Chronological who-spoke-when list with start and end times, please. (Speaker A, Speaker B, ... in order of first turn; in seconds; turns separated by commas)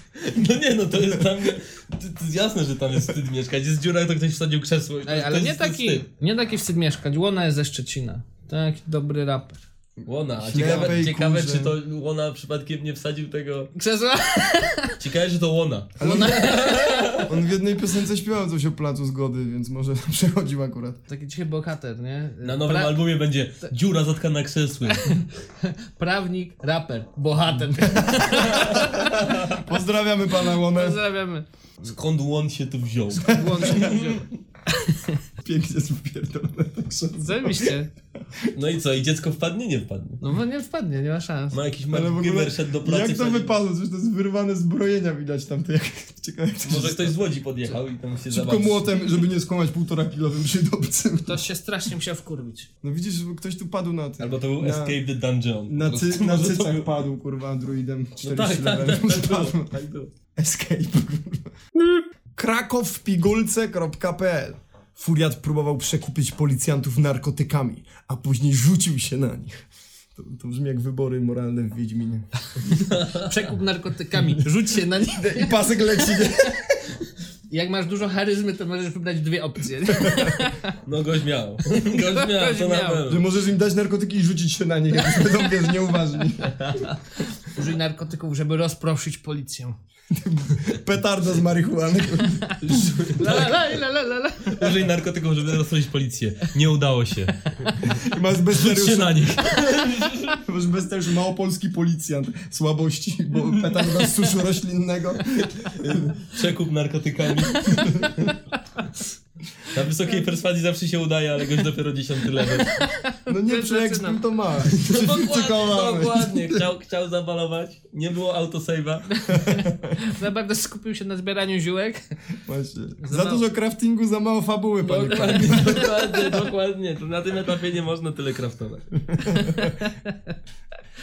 Speaker A: 0.2-6.0, Speaker B: 5.1-9.6, Speaker A: 10.1-13.7, Speaker C: 10.4-11.8, Speaker B: 13.8-15.0, Speaker A: 15.0-17.3, Speaker C: 16.0-16.5, Speaker B: 16.0-17.2, Speaker C: 17.3-21.0, Speaker B: 21.1-23.0, Speaker A: 22.4-25.2, Speaker B: 24.9-29.1, Speaker A: 28.3-29.6, Speaker C: 28.7-31.0, Speaker B: 30.7-31.5, Speaker A: 31.8-34.2, Speaker C: 33.3-34.0, Speaker B: 33.3-35.2, Speaker C: 35.4-37.8, Speaker B: 37.2-37.9, Speaker A: 38.5-40.2, Speaker B: 40.2-41.6, Speaker A: 41.5-43.6, Speaker C: 41.9-47.2, Speaker A: 46.6-49.0, Speaker C: 48.3-51.4, Speaker B: 51.3-52.7, Speaker C: 52.8-55.0, Speaker A: 54.2-56.9, Speaker C: 55.7-59.7, Speaker A: 58.2-60.1, Speaker C: 60.4-61.5, Speaker C: 62.4-69.6, Speaker C: 70.2-72.3, Speaker A: 72.7-73.3, Speaker B: 73.2-76.3, Speaker C: 75.3-76.8, Speaker B: 77.5-80.7, Speaker C: 79.9-80.3, Speaker A: 80.8-83.3, Speaker B: 81.9-83.0, Speaker C: 83.0-86.6, Speaker A: 86.5-87.0, Speaker B: 87.5-89.8, Speaker C: 90.1-92.8, Speaker A: 92.6-93.7, Speaker B: 93.2-94.8, Speaker A: 94.5-98.0, Speaker C: 98.0-99.4, Speaker A: 98.5-100.4, Speaker C: 100.4-106.1, Speaker A: 103.3-104.1, Speaker A: 105.4-108.3, Speaker C: 107.6-108.2, Speaker A: 109.7-112.7, Speaker B: 112.7-114.2, Speaker C: 113.3-116.7, Speaker A: 114.7-119.1, Speaker B: 119.2-122.0, Speaker C: 122.5-126.5, Speaker B: 123.0-123.4, Speaker B: 124.9-125.8, Speaker A: 125.0-129.4, Speaker C: 129.2-129.6, Speaker B: 129.6-130.2